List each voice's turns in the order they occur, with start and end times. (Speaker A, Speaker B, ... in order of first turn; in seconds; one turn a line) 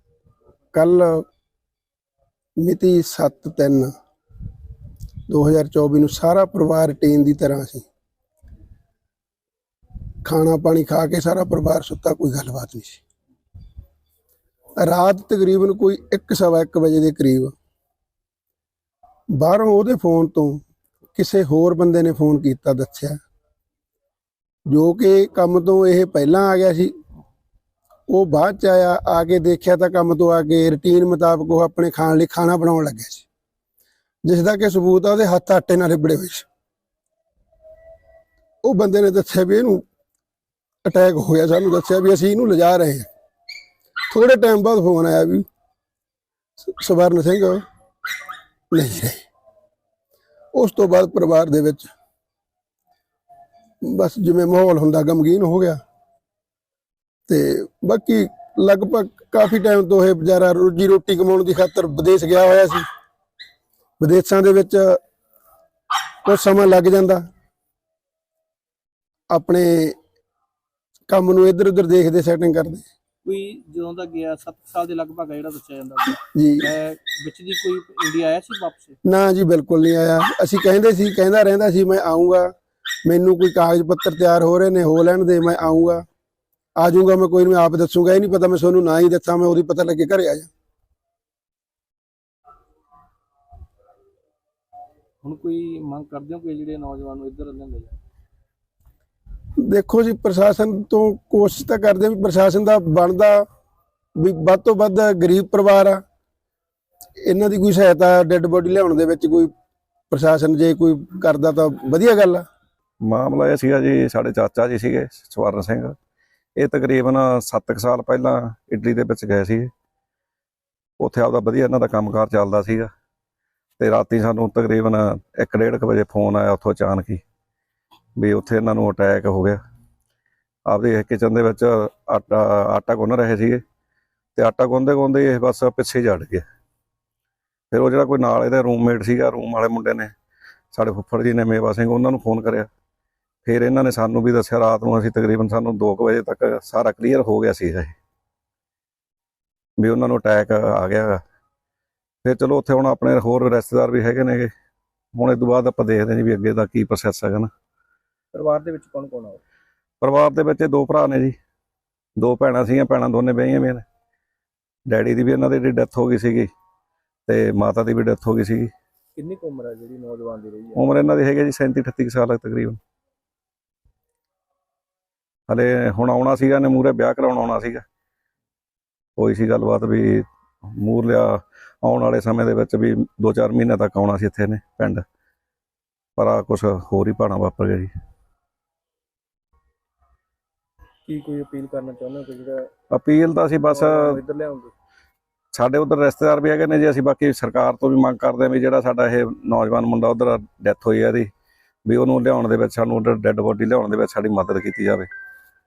Speaker A: 0.7-1.2
Speaker A: 2.6-3.9
Speaker A: 5.3-7.9
Speaker A: 10.2-13.0
Speaker A: 14.8-17.5
Speaker A: 19.3-20.6
Speaker A: 21.1-23.2
Speaker A: 24.7-26.9
Speaker A: 28.1-33.2
Speaker A: 34.2-36.5
Speaker A: 38.6-39.8
Speaker A: 40.8-43.1
Speaker A: 44.1-45.4
Speaker A: 46.6-47.6
Speaker A: 48.7-49.2
Speaker A: 50.5-51.9
Speaker A: 53.8-55.8
Speaker A: 57.3-62.8
Speaker A: 64.0-65.0
Speaker A: 66.2-67.2
Speaker A: 69.3-69.9
Speaker A: 71.1-72.8
Speaker B: 73.2-79.0
Speaker A: 76.3-76.7
Speaker A: 79.0-82.5
Speaker A: 83.0-86.0
Speaker A: 86.8-90.5
Speaker B: 95.2-98.0
Speaker A: 99.6-103.4
Speaker A: 104.2-106.0
Speaker A: 107.2-109.5
Speaker A: 110.1-112.4
Speaker C: 113.0-115.9
Speaker C: 116.6-119.7
Speaker C: 121.0-122.9
Speaker C: 123.8-127.2
Speaker C: 128.2-129.6
Speaker C: 130.7-133.6
Speaker C: 134.3-136.4
Speaker C: 137.7-140.1
Speaker C: 140.7-142.7
Speaker C: 143.4-147.9
Speaker C: 149.8-151.2
Speaker C: 152.2-154.5
Speaker C: 155.2-157.5
Speaker B: 158.3-159.4
Speaker C: 160.0-161.3
Speaker C: 162.2-163.8
Speaker C: 164.9-166.5
Speaker C: 167.3-168.7
Speaker B: 169.2-170.9
Speaker C: 170.7-172.8
Speaker C: 175.5-177.8
Speaker C: 179.2-185.0
Speaker C: 186.2-187.9
Speaker B: 191.1-192.7
Speaker C: 192.9-194.2
Speaker B: 193.7-194.7
Speaker C: 195.5-201.3
Speaker C: 201.8-205.1